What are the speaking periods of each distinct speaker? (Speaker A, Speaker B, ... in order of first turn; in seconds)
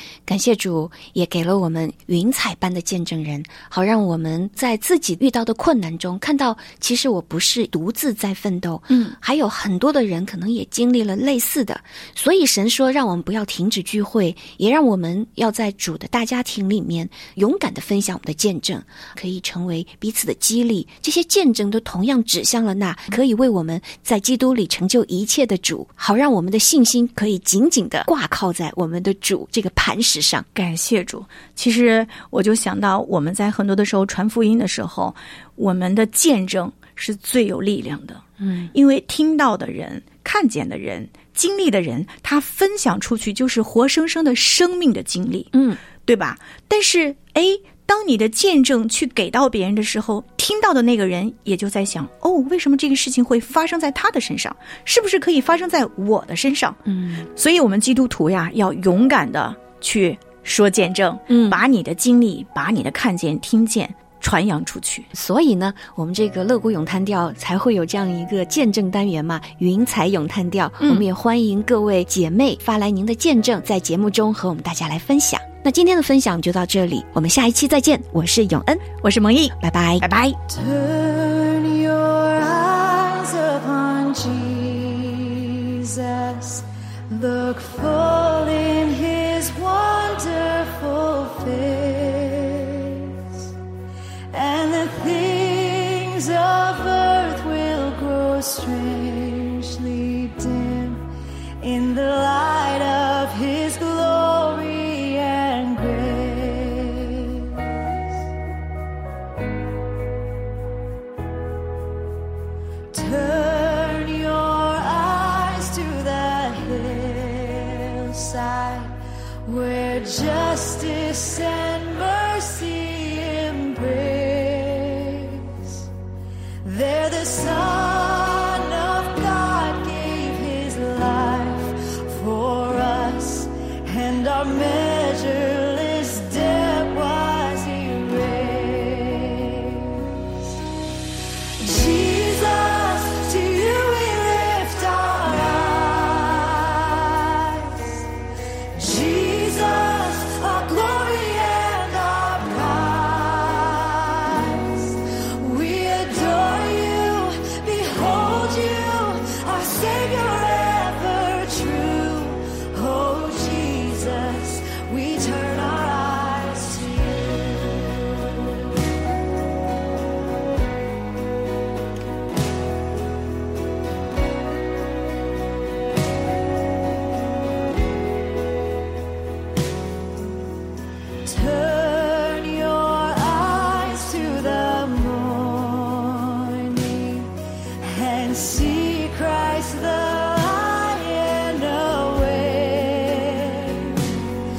Speaker A: 0.2-30.5, 38.4-38.7, 45.5-45.8, 56.9-57.3, 61.3-61.6, 65.1-78.8, 79.6-80.1
Speaker B: 8.9-9.2, 30.5-38.2, 38.7-45.5, 46.0-56.8, 57.4-65.1, 70.8-71.1, 79.0-80.4
Speaker C: 80.5-93.2, 94.3-101.0, 101.6-107.8, 112.9-118.9, 119.4-125.7, 126.6-140.2, 141.6-148.1, 148.7-168.0, 181.2-194.2